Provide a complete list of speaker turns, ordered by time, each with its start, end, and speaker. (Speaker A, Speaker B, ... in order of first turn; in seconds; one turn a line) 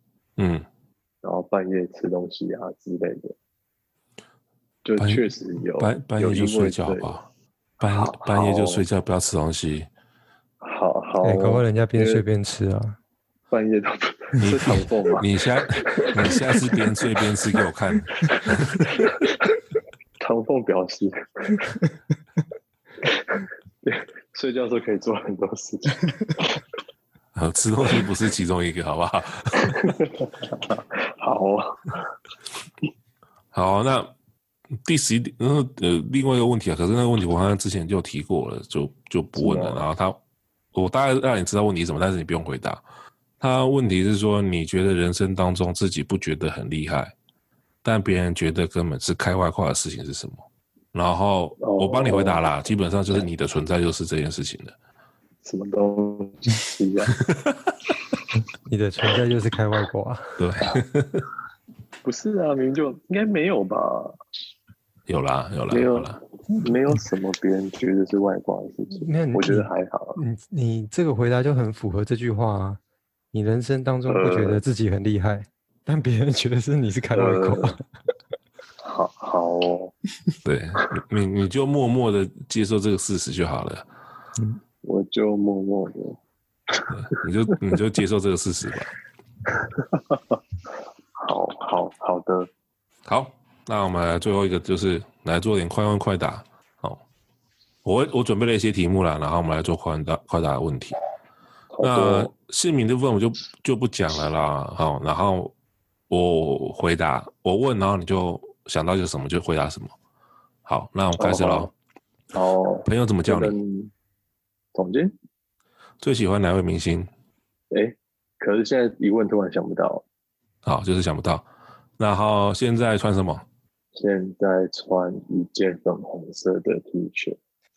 Speaker A: 0.4-0.7
Speaker B: 1.2-3.3
Speaker B: 4.8-7.2
Speaker A: 5.0-7.2
Speaker A: 7.8-9.9
Speaker B: 7.8-8.8
Speaker B: 10.6-12.2
Speaker C: 11.2-13.0
Speaker B: 13.5-15.3
Speaker A: 14.4-19.1
Speaker B: 15.8-17.2
Speaker B: 18.2-19.6
Speaker B: 20.2-21.8
Speaker B: 23.0-26.6
Speaker A: 27.3-30.0
Speaker B: 29.6-32.1
Speaker A: 33.5-34.1
Speaker A: 34.8-40.2
Speaker B: 39.3-39.9
Speaker A: 40.7-42.8
Speaker A: 43.4-47.1
Speaker A: 47.8-54.7
Speaker B: 51.6-52.5
Speaker B: 55.4-57.1
Speaker C: 58.6-60.3
Speaker A: 60.4-61.2
Speaker B: 62.0-64.1
Speaker A: 65.1-66.2
Speaker B: 65.7-70.2
Speaker C: 68.9-72.8
Speaker C: 73.3-77.8
Speaker B: 74.1-74.6
Speaker B: 77.1-77.8
Speaker B: 78.8-79.9
Speaker A: 80.4-83.8
Speaker B: 84.8-86.2
Speaker A: 86.9-88.9
Speaker B: 89.5-90.4
Speaker B: 91.2-92.5
Speaker A: 93.0-97.0
Speaker A: 97.8-101.0
Speaker B: 101.7-102.3
Speaker A: 101.8-105.5
Speaker A: 106.1-109.9
Speaker A: 110.6-111.7
Speaker B: 111.2-111.7
Speaker B: 112.3-113.9
Speaker A: 112.8-113.5
Speaker B: 114.7-115.1
Speaker A: 116.0-117.1
Speaker B: 117.7-120.0
Speaker A: 120.6-121.5
Speaker A: 122.0-123.4
Speaker B: 123.9-127.4